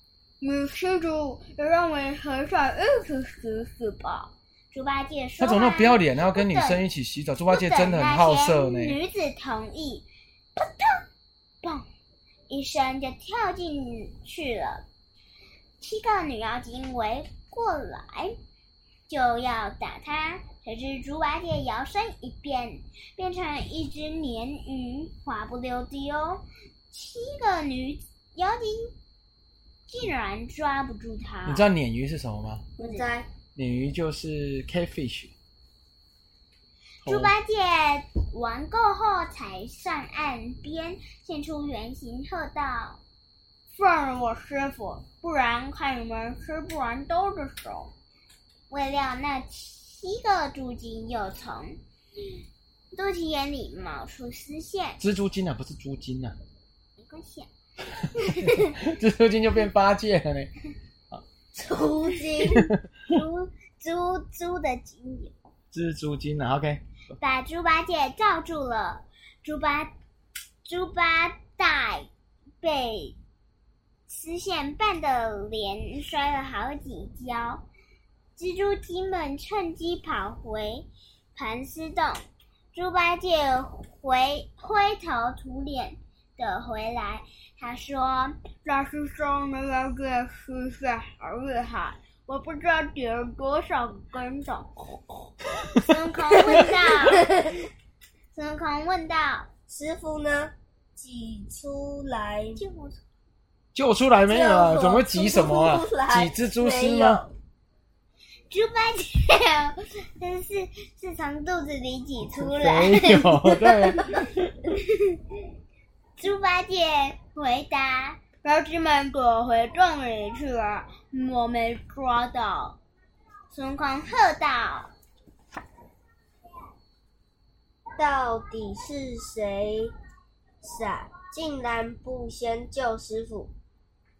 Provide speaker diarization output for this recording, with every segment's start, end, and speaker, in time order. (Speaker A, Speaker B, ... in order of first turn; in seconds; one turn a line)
Speaker A: 1.4-2.4
Speaker A: 3.4-6.8
Speaker B: 5.4-9.0
Speaker A: 7.5-10.1
Speaker A: 10.6-10.9
Speaker A: 12.5-14.8
Speaker A: 15.8-18.4
Speaker A: 19.1-28.9
Speaker A: 29.9-31.6
Speaker B: 31.4-32.7
Speaker C: 32.8-33.3
Speaker A: 32.8-33.1
Speaker B: 33.5-35.3
Speaker B: 37.0-37.3
Speaker A: 37.0-43.0
Speaker A: 43.7-47.9
Speaker A: 48.7-51.8
Speaker A: 52.9-55.0
Speaker B: 55.0-56.4
Speaker A: 57.0-57.5
Speaker B: 58.2-60.5
Speaker A: 58.2-58.7
Speaker C: 61.5-62.7
Speaker B: 62.5-62.7
Speaker A: 63.1-65.4
Speaker B: 65.7-66.8
Speaker A: 67.2-69.9
Speaker A: 70.6-72.1
Speaker A: 72.6-73.2
Speaker A: 74.1-77.6
Speaker A: 78.3-95.0
Speaker A: 95.7-97.3
Speaker C: 96.5-97.6
Speaker A: 98.3-99.5
Speaker C: 99.7-102.6
Speaker A: 102.5-103.0
Speaker B: 103.7-107.2
Speaker C: 104.3-107.3
Speaker A: 108.5-113.5
Speaker B: 112.3-114.2
Speaker A: 114.7-115.2
Speaker A: 116.2-122.8
Speaker A: 123.5-124.9
Speaker C: 128.0-129.9
Speaker C: 130.6-133.5